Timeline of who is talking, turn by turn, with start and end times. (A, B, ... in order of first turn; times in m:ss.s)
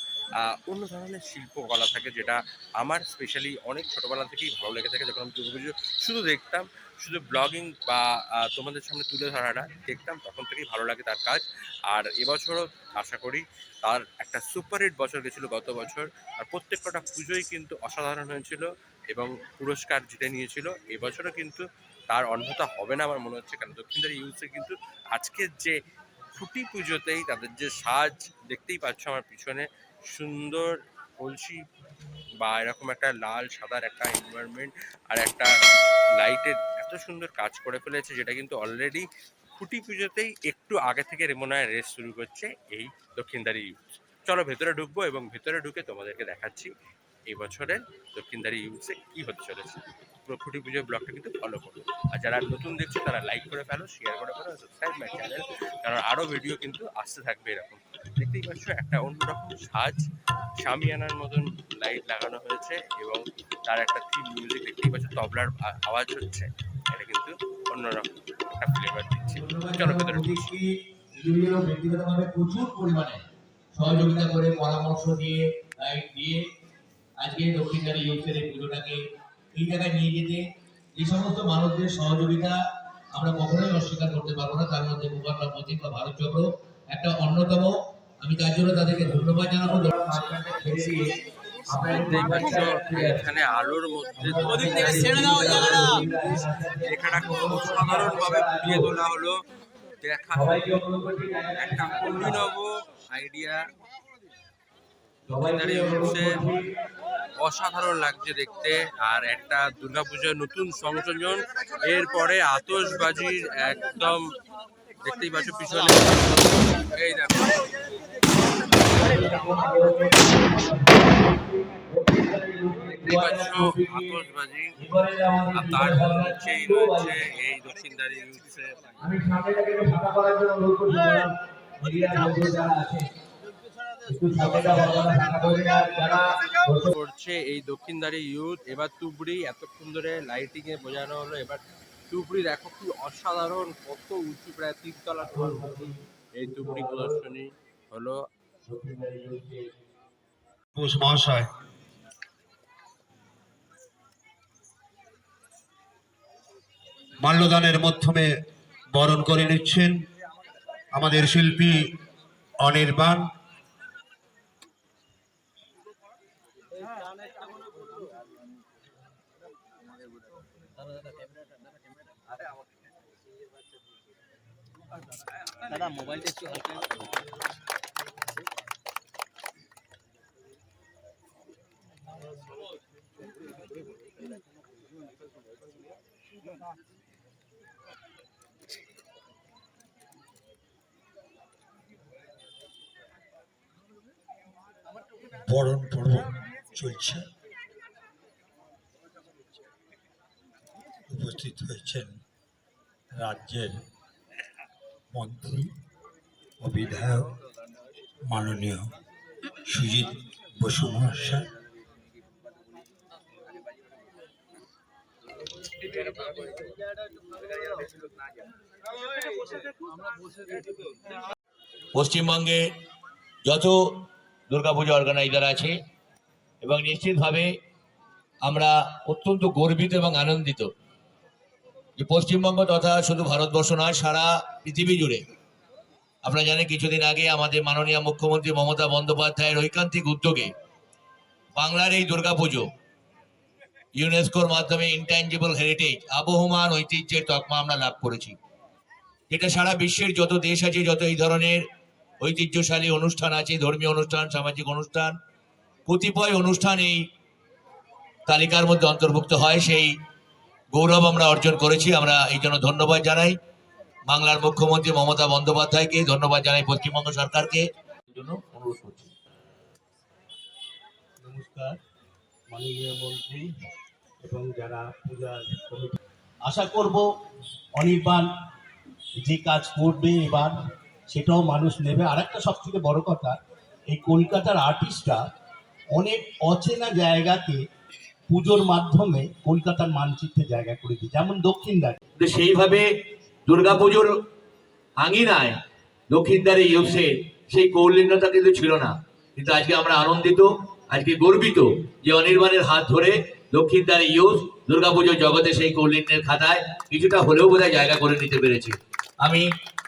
0:00.5-0:25.8 A
0:26.4-0:31.6 A
0:32.4-0:35.5 A
0:36.2-0:46.7 A
0:47.3-1:00.0 A
1:00.6-1:08.1 A
1:08.6-1:10.5 A
1:09.3-1:13.2 B
1:13.7-1:16.4 B
1:17.2-1:19.0 B
1:19.6-1:20.4 B
1:21.0-1:22.6 B
1:23.1-1:31.0 B
1:31.7-1:33.2 B
1:31.8-1:33.2 C
1:31.9-1:39.4 A
1:34.2-1:38.9 C
1:34.6-1:35.9 B
1:40.0-1:40.8 A
1:40.3-1:42.4 C
1:41.6-1:43.6 A
1:45.3-1:46.7 C
1:45.3-1:46.4 A
1:47.4-1:54.3 A
1:55.0-1:57.6 A
1:58.9-2:04.2 C
2:03.0-2:04.7 A
2:04.8-2:07.2 C
2:05.5-2:08.8 A
2:09.0-2:13.1 C
2:14.1-2:16.9 C
2:16.9-2:28.2 A
2:25.2-2:27.2 C
2:28.7-2:29.8 C
2:30.8-2:31.5 D
2:37.2-2:38.4 D
2:38.9-2:40.0 D
2:40.9-2:41.9 D
2:42.6-2:43.3 D
2:56.0-2:56.6 C
3:15.5-3:17.3 E
3:21.1-3:22.1 E
3:23.2-3:23.8 E
3:25.1-3:25.7 E
3:26.6-3:27.3 E
3:28.2-3:28.9 E
3:29.7-3:31.5 E
3:42.0-3:42.7 B
3:43.4-3:43.8 B
3:44.5-3:45.8 B
3:46.6-3:47.5 B
3:48.4-3:50.7 B
3:52.0-3:55.2 B
3:56.2-4:00.5 B
4:01.6-4:02.7 B
4:04.0-4:08.4 B
4:09.3-4:11.6 B
4:12.2-4:15.1 B
4:15.9-4:17.0 B
4:18.3-4:19.9 B
4:20.7-4:23.4 B
4:24.1-4:29.1 B
4:31.2-4:31.8 C
4:32.5-4:33.5 C
4:34.2-4:37.0 C
4:37.8-4:38.3 C
4:39.2-4:40.6 C
4:41.1-4:43.4 C
4:43.9-4:45.2 C
4:46.0-4:47.6 C
4:48.3-4:52.0 C
4:52.2-4:52.9 B
4:53.5-4:54.1 B
4:55.0-4:55.6 B
4:56.1-5:09.5 B